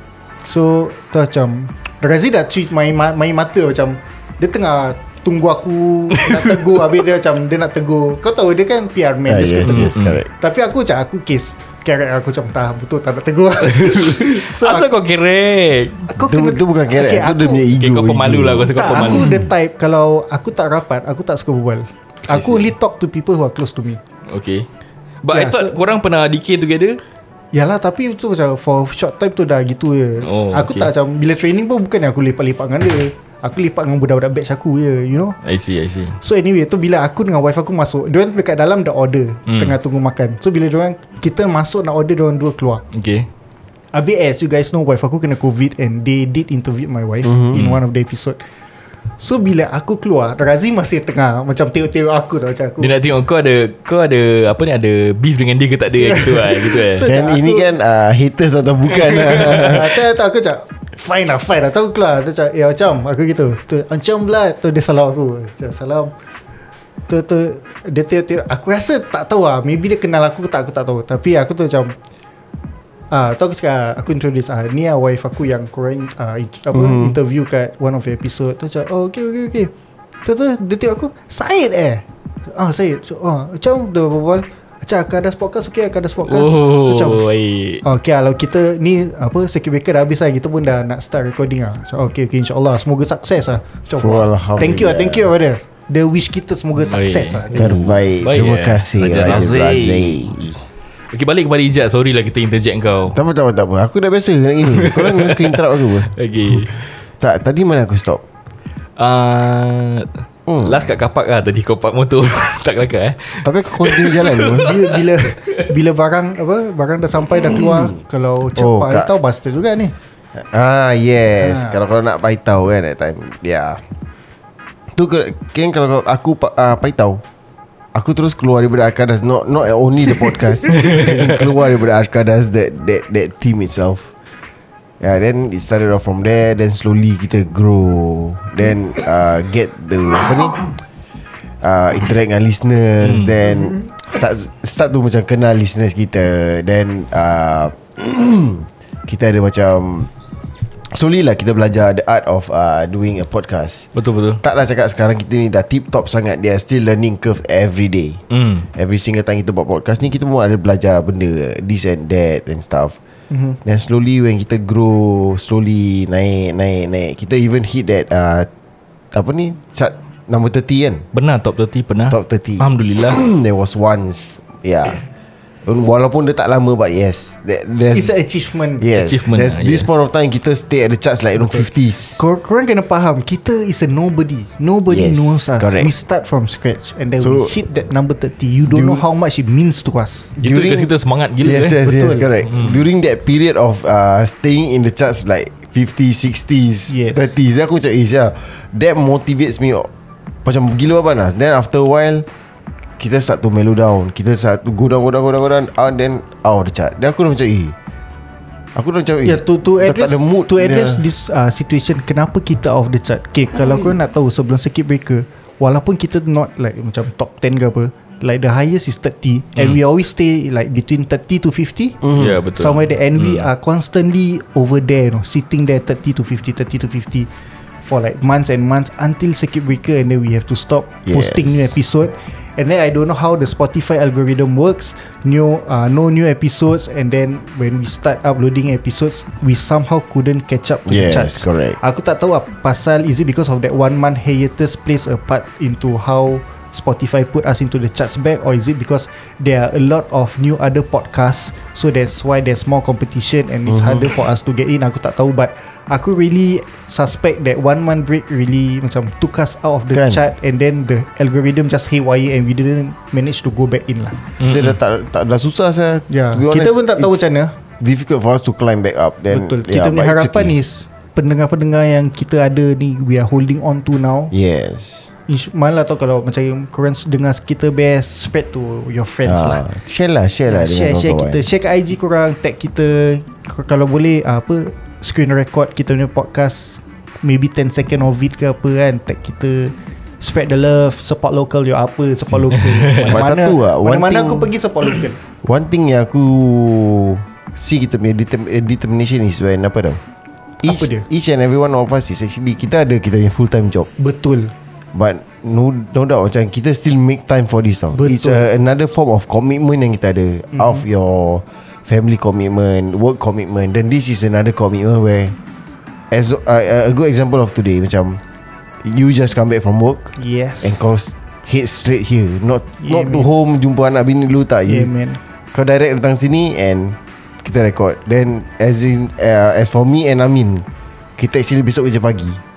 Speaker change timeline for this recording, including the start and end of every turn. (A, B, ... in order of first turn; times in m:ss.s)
0:00.4-0:14.9 A
0:06.2-0:06.5 B
0:09.3-0:10.3 C
0:09.7-0:10.2 B
0:13.6-0:16.1 B
0:16.1-0:17.7 A
0:16.2-0:19.4 C
0:17.8-0:19.4 B
0:18.8-0:24.0 A
0:22.3-0:22.7 C
0:24.3-0:24.7 B
0:25.2-0:27.0 B
0:25.3-0:25.8 A
0:27.5-0:35.4 A
0:30.2-0:30.9 B
0:35.4-0:36.2 B
0:36.2-0:42.8 A
0:39.5-0:39.8 B
0:42.9-0:43.3 B
0:43.9-0:48.4 A
0:47.3-0:47.6 C
0:47.5-0:47.8 B
0:49.2-0:52.9 A
0:52.8-0:57.1 B
0:56.0-0:57.8 A
0:57.0-1:00.0 C
0:59.1-1:06.1 A
1:07.1-1:11.9 A
1:13.1-1:19.7 A
1:16.7-1:17.2 C
1:20.2-1:27.2 A
1:26.2-1:27.8 B
1:27.8-1:37.9 A
1:34.0-1:35.3 C
1:36.8-1:40.4 B
1:37.5-1:40.6 C
1:41.1-1:43.2 B
1:43.1-1:48.2 C
1:44.7-1:46.8 B
1:49.0-1:54.9 B
1:50.5-1:50.9 C
1:53.4-1:54.7 C
1:54.5-1:59.9 A
1:57.5-1:57.9 C
1:58.6-1:59.1 C
2:00.4-2:03.8 C
2:01.4-2:01.8 A
2:04.9-2:07.2 C
2:08.0-2:14.1 C
2:10.7-2:11.1 B
2:15.0-2:20.7 C
2:21.6-2:30.1 C
2:23.0-2:23.3 B
2:30.9-2:33.9 C
2:34.0-2:34.4 B
2:34.4-2:38.2 C
2:38.3-2:38.7 B
2:38.8-2:43.0 C
2:43.3-2:43.6 A
2:43.6-2:48.5 C
2:49.1-2:51.1 C
2:51.1-2:53.2 B
2:52.1-2:55.0 C
2:55.6-2:58.1 C
2:57.9-2:58.9 A
2:58.8-3:02.2 C
2:59.0-2:59.9 B
3:01.4-3:10.4 A
3:04.9-3:05.9 C
3:07.2-3:07.5 C
3:08.7-3:09.0 C
3:10.4-3:11.8 B
3:10.4-3:10.9 C
3:11.4-3:19.9 C
3:11.8-3:12.3 A
3:12.5-3:12.8 B
3:16.9-3:17.3 A
3:20.4-3:22.3 C
3:23.0-3:27.8 C
3:28.8-3:31.0 C
3:29.2-3:47.3 A
3:42.0-3:42.3 C
3:42.1-3:43.5 B
3:47.8-4:24.2 A
3:51.1-3:51.8 C
4:00.9-4:01.8 C
4:13.7-4:14.1 C
4:19.9-4:20.2 C
4:24.4-4:24.8 B
4:24.4-4:27.3 C
4:26.1-4:27.6 A
4:27.8-4:30.6 C
4:29.3-4:34.3 A
4:34.3-4:35.1 C
4:35.3-4:39.6 A
4:39.2-4:41.4 C
4:40.5-4:55.2 A
4:52.7-4:53.1 B
4:53.1-4:54.5 C
4:55.4-5:00.0 C
5:00.6-5:03.9 C
5:00.6-5:01.1 A
5:04.0-5:04.5 A
5:04.9-5:15.4 C
5:08.0-5:08.4 A
5:16.1-5:18.2 C
5:18.8-5:24.9 C
5:20.2-5:20.9 A
5:22.8-5:23.3 A
5:24.7-5:25.2 A
5:25.5-5:30.7 C
5:31.2-5:32.4 C